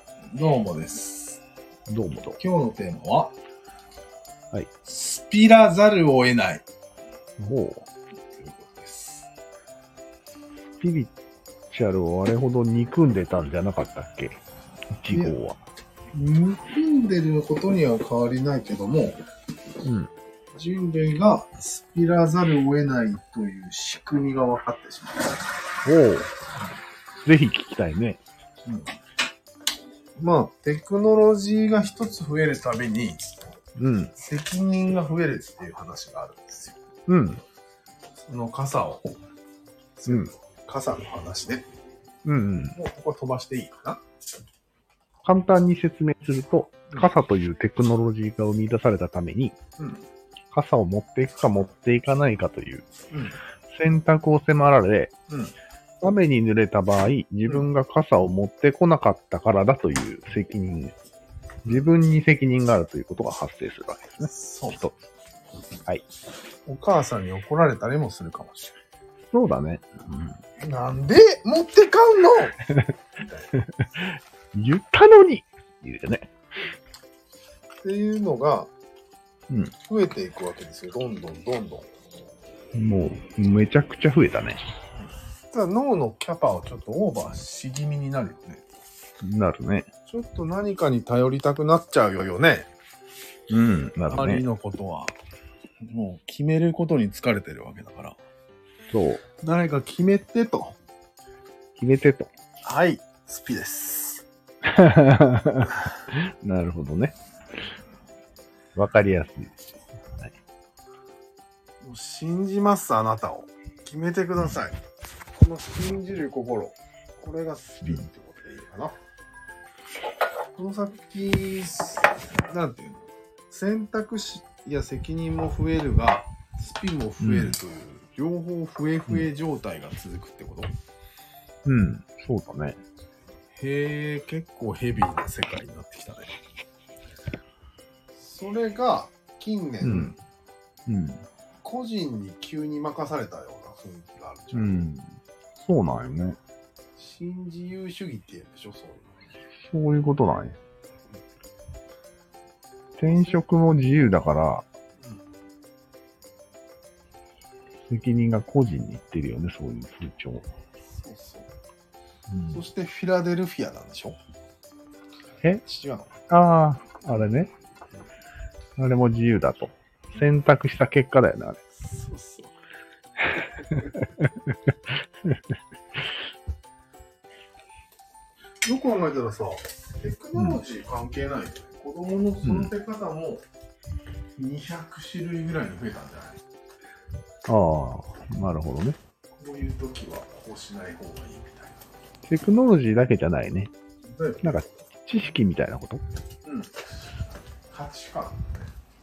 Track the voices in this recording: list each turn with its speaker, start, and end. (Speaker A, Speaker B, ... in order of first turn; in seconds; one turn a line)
Speaker A: 0.3-1.4
Speaker B: 1.9-2.4
Speaker A: 2.4-3.3
Speaker A: 4.8-6.7
Speaker B: 7.4-7.9
Speaker A: 8.4-9.3
Speaker B: 10.8-11.1
Speaker B: 11.7-14.4
Speaker B: 15.0-15.6
Speaker A: 15.1-15.4
Speaker A: 16.1-19.2
Speaker B: 19.8-20.1
Speaker A: 20.5-25.4
Speaker B: 25.9-26.3
Speaker B: 27.2-28.2
Speaker A: 28.6-28.9
Speaker A: 30.2-33.2
Speaker B: 33.8-34.1
Speaker A: 34.2-36.8
Speaker B: 37.1-37.4
Speaker A: 38.3-39.1
Speaker A: 40.0-41.7
Speaker B: 42.2-42.8
Speaker A: 42.7-44.0
Speaker B: 45.2-49.6
Speaker A: 49.8-50.0
Speaker B: 50.5-52.9
Speaker A: 53.1-53.4
Speaker B: 53.7-55.1
Speaker A: 55.3-55.5
Speaker B: 56.0-61.0
Speaker B: 61.6-64.9
Speaker A: 64.2-64.9
Speaker A: 66.7-68.8
Speaker B: 69.3-70.4
Speaker A: 70.6-72.6
Speaker B: 73.6-76.3
Speaker A: 77.8-78.7
Speaker A: 79.8-81.9
Speaker B: 82.7-84.6
Speaker A: 85.0-88.6
Speaker B: 89.2-89.9
Speaker A: 90.1-92.7
Speaker B: 93.5-94.4
Speaker A: 94.1-95.2
Speaker A: 95.8-98.2
Speaker B: 98.9-99.2
Speaker A: 99.4-100.8
Speaker B: 101.8-102.3
Speaker A: 102.7-104.2
Speaker B: 104.7-107.2
Speaker B: 108.8-109.5
Speaker A: 111.8-114.8
Speaker A: 115.4-119.0
Speaker A: 120.6-130.7
Speaker B: 127.2-127.6
Speaker B: 131.7-132.8
Speaker A: 133.6-136.3
Speaker A: 138.2-140.2
Speaker B: 139.8-140.2
Speaker B: 140.9-141.2
Speaker A: 141.6-144.9
Speaker B: 144.5-146.4
Speaker A: 147.0-149.2
Speaker B: 149.7-150.6
Speaker B: 153.0-154.7
Speaker A: 153.0-153.5
Speaker B: 157.9-160.4
Speaker A: 160.9-161.5
Speaker B: 162.3-162.6
Speaker A: 162.5-164.2
Speaker A: 165.5-166.2
Speaker B: 166.3-167.5
Speaker B: 168.8-171.6
Speaker A: 171.8-172.5
Speaker B: 173.8-174.3
Speaker A: 178.6-183.4
Speaker B: 182.4-182.7
Speaker A: 184.4-186.4
Speaker B: 187.5-189.0
Speaker A: 189.3-191.8
Speaker B: 192.3-193.7
Speaker A: 194.0-194.7
Speaker B: 194.4-196.0
Speaker A: 196.4-196.8
Speaker A: 197.7-198.7